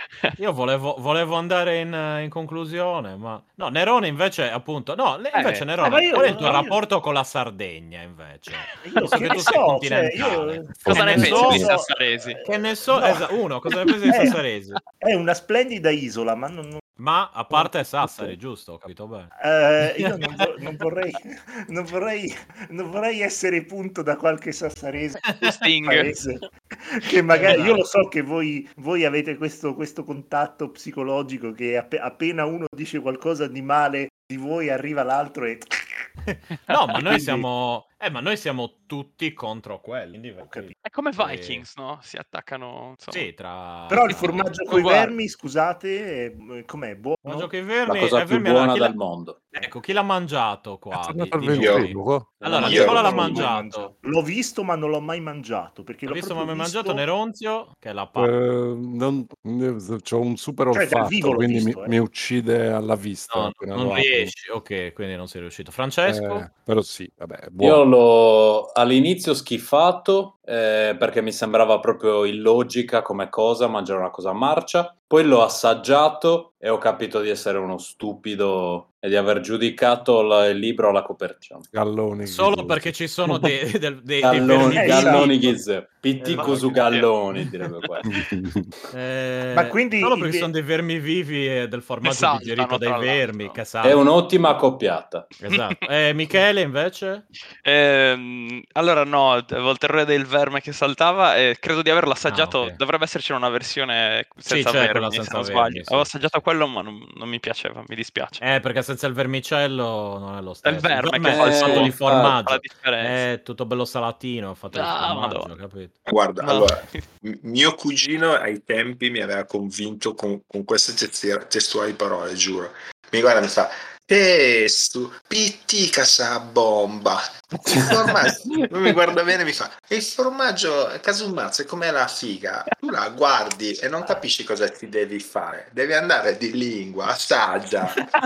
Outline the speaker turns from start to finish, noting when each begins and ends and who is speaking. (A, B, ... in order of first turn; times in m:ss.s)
0:00.4-0:11.7 A
0:05.3-0:06.6 B
0:05.8-0:06.8 C
0:08.6-0:09.6 B
0:08.8-0:13.3 C
0:10.8-0:11.5 D
0:10.8-0:12.4 B
0:12.4-0:14.8 A
0:14.1-0:14.4 C
0:15.0-0:16.8 C
0:17.0-0:19.3 A
0:17.5-0:18.3 C
0:19.4-0:36.1 C
0:19.8-0:20.4 A
0:25.2-0:25.6 A
0:25.4-0:26.2 B
0:27.3-0:27.8 A
0:36.2-0:41.6 A
0:37.0-0:37.5 C
0:40.4-0:40.7 C
0:40.8-0:43.3 B
0:43.1-0:44.9 A
0:43.9-0:47.5 C
0:44.1-0:45.1 B
0:47.2-0:48.9 A
0:47.8-0:49.5 E
0:49.5-0:53.9 A
0:50.9-0:52.4 D
0:51.5-0:51.9 F
0:52.4-0:53.5 F
0:52.5-0:57.0 C
0:56.0-0:58.3 A
0:58.2-1:04.3 D
1:00.7-1:02.0 C
1:03.3-1:06.5 A
1:06.0-1:07.8 D
1:07.6-1:21.7 E
1:21.7-1:23.5 D
1:22.2-1:25.6 A
1:24.2-1:28.1 E
1:24.7-1:25.3 C
1:26.2-1:26.8 A
1:26.4-1:27.1 B
1:28.0-1:28.7 D
1:28.9-1:34.0 A
1:29.5-1:30.5 C
1:32.0-1:33.6 B
1:33.8-1:35.3 E
1:35.4-1:37.2 A
1:37.6-1:48.4 B
1:42.3-1:42.8 A
1:44.4-1:46.1 A
1:48.4-1:55.9 A
1:50.6-1:53.2 B
1:51.2-1:52.4 E
1:54.7-1:55.5 B
1:56.0-2:18.1 F
1:56.4-1:57.0 B
2:07.7-2:08.6 E